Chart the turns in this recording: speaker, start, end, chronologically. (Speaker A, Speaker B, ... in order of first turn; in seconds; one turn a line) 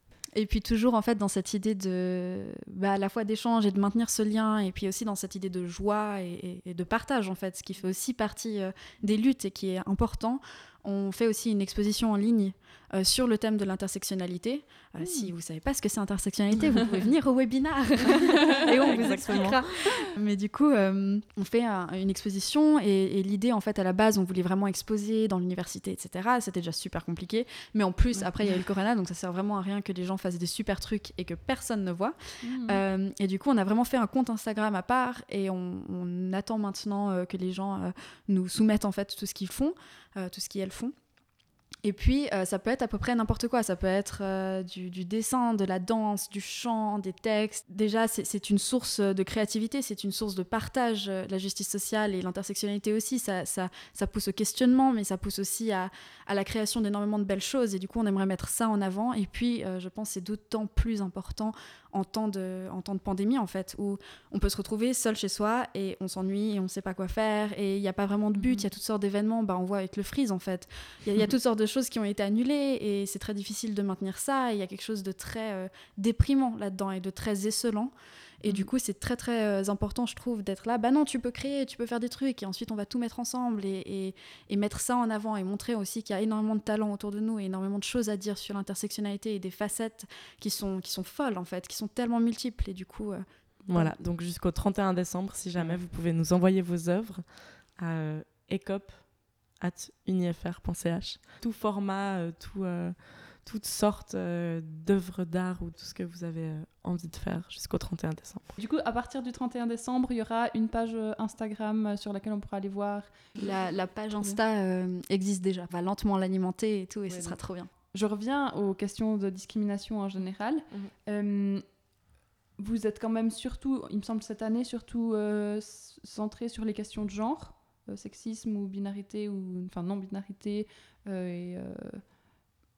Speaker A: 0.3-40.9
Speaker B: 15.0-15.3
Speaker C: 18.5-19.9
Speaker B: 32.4-32.8
Speaker A: 41.8-93.2
Speaker B: 68.4-68.7
Speaker C: 93.7-108.5
Speaker B: 108.6-113.4
Speaker A: 113.4-117.7
Speaker B: 117.1-121.8
Speaker B: 122.6-132.2